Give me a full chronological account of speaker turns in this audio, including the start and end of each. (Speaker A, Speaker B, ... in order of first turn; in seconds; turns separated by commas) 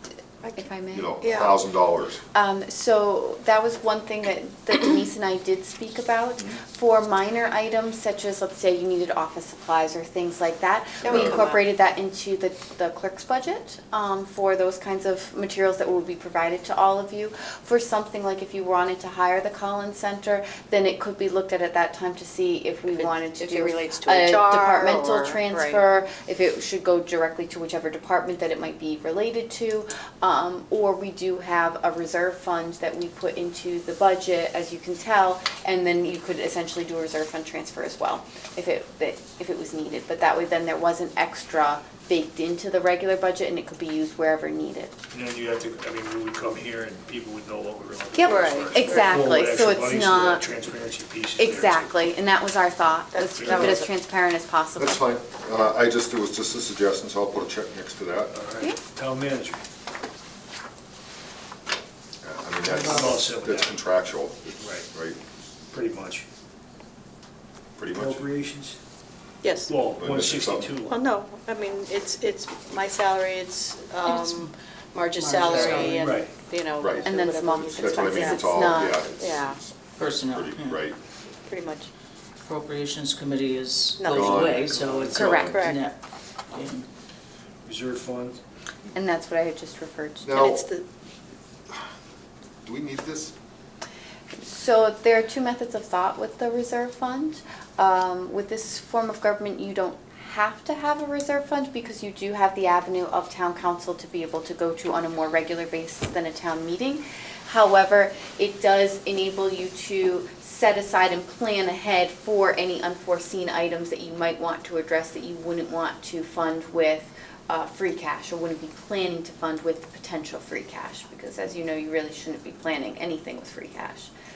Speaker A: 0.5-1.5, Speaker B: 0.9-2.2, Speaker C: 1.2-1.6, Speaker A: 2.3-44.9, Speaker C: 11.0-11.7, Speaker B: 11.0-11.5, Speaker C: 22.9-25.8, Speaker D: 45.1-51.9, Speaker A: 48.1-50.4, Speaker C: 48.2-49.2, Speaker A: 51.4-55.0, Speaker C: 53.1-53.9, Speaker D: 53.4-53.8, Speaker B: 54.8-58.3, Speaker D: 58.3-59.6, Speaker B: 62.2-65.2, Speaker D: 62.6-63.8, Speaker D: 64.6-64.9, Speaker D: 65.7-66.2, Speaker B: 67.8-68.2, Speaker D: 67.9-68.8, Speaker C: 69.4-69.8, Speaker D: 69.7-71.0, Speaker B: 69.9-70.8, Speaker C: 70.8-79.6, Speaker E: 74.0-74.5, Speaker E: 75.1-76.0, Speaker D: 75.5-76.4, Speaker B: 76.8-81.0, Speaker A: 77.0-79.0, Speaker E: 80.0-80.8, Speaker C: 81.4-81.9, Speaker E: 82.4-86.0, Speaker C: 84.0-84.5, Speaker B: 84.1-85.7, Speaker D: 84.7-85.3, Speaker A: 85.2-85.5, Speaker C: 85.3-85.8, Speaker E: 86.5-86.9, Speaker D: 87.7-88.4, Speaker A: 88.9-90.5, Speaker B: 90.2-90.7, Speaker C: 90.3-90.8, Speaker B: 92.7-93.3, Speaker A: 94.4-124.1